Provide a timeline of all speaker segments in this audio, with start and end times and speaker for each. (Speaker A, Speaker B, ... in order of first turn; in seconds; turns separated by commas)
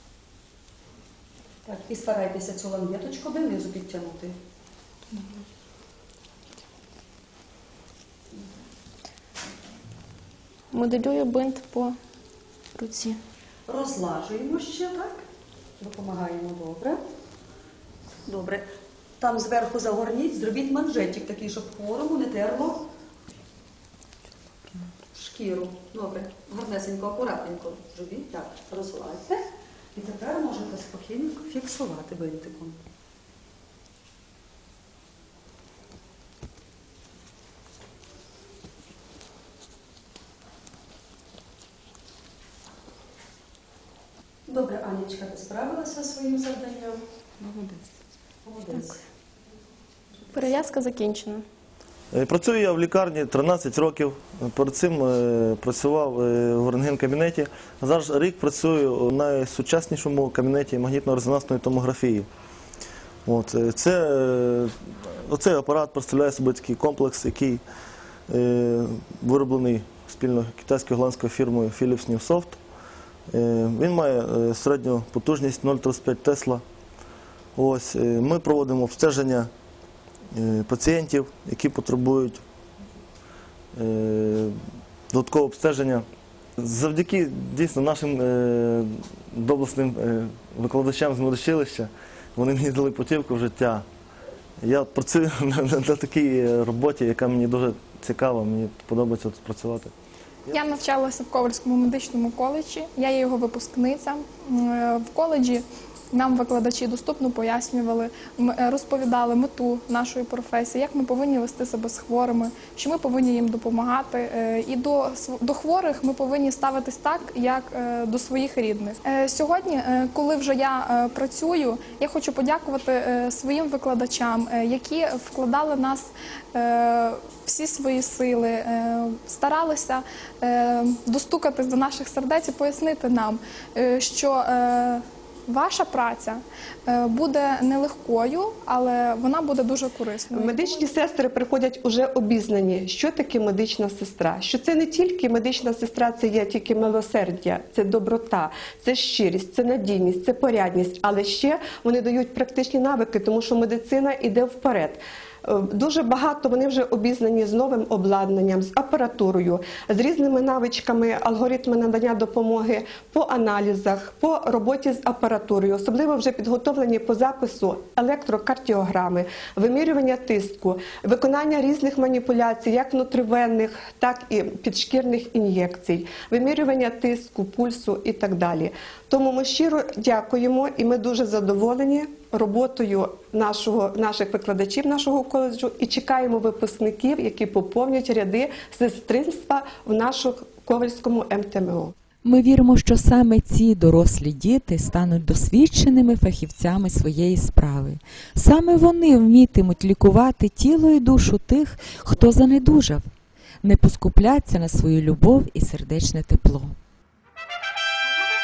Speaker A: 1.6-4.4, Speaker B: 10.7-11.9, Speaker B: 12.7-13.2, Speaker A: 13.7-15.2, Speaker A: 15.8-17.0, Speaker A: 18.2-18.7, Speaker A: 19.2-22.9, Speaker A: 25.1-29.4, Speaker A: 29.9-32.8, Speaker A: 44.5-47.8, Speaker A: 48.4-49.0, Speaker B: 50.3-51.4, Speaker C: 52.1-62.3, Speaker C: 63.2-67.6, Speaker C: 68.3-72.6, Speaker C: 73.3-76.6, Speaker C: 77.5-79.5, Speaker C: 80.3-82.4, Speaker C: 83.7-84.5, Speaker C: 85.1-86.0, Speaker C: 86.6-93.8, Speaker C: 94.6-99.9, Speaker D: 100.5-140.9, Speaker E: 140.3-191.9, Speaker F: 192.2-203.0, Speaker F: 203.6-206.7